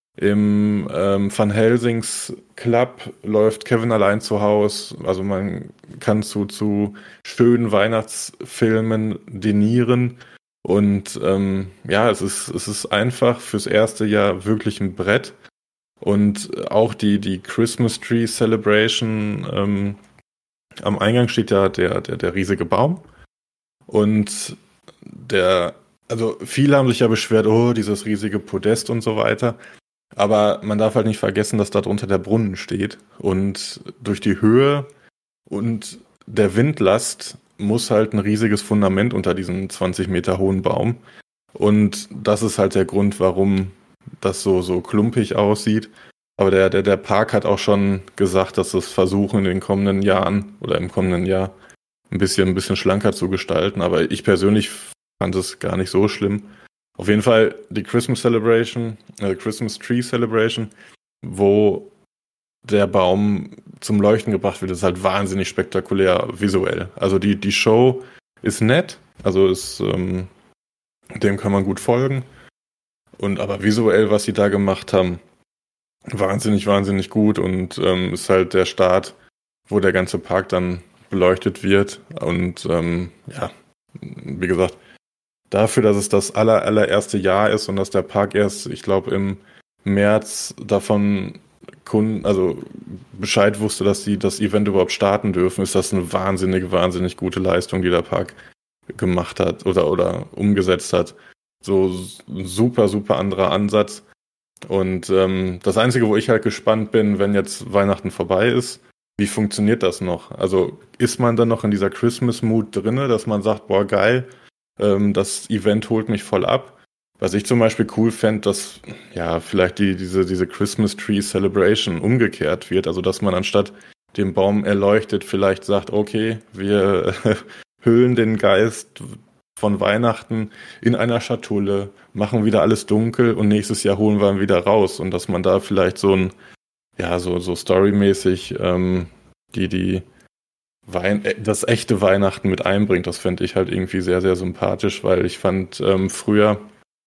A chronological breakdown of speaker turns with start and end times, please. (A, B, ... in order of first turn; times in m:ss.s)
0:00.2-0:15.4 A
0:16.0-0:20.0 A
0:20.8-0:23.0 A
0:23.9-0:29.6 A
0:30.2-0:34.9 A
0:35.5-0:41.0 A
0:41.5-0:51.5 A
0:52.1-1:00.7 A
1:01.2-1:01.9 A
1:02.6-1:10.3 A
1:11.2-1:12.2 A
1:13.2-1:15.2 A
1:16.1-1:19.2 A
1:19.7-1:24.8 A
1:25.5-1:38.4 A
1:38.9-1:44.0 A
1:44.7-1:54.3 A
1:54.8-2:16.3 A
2:17.0-2:20.0 A
2:20.9-2:26.6 A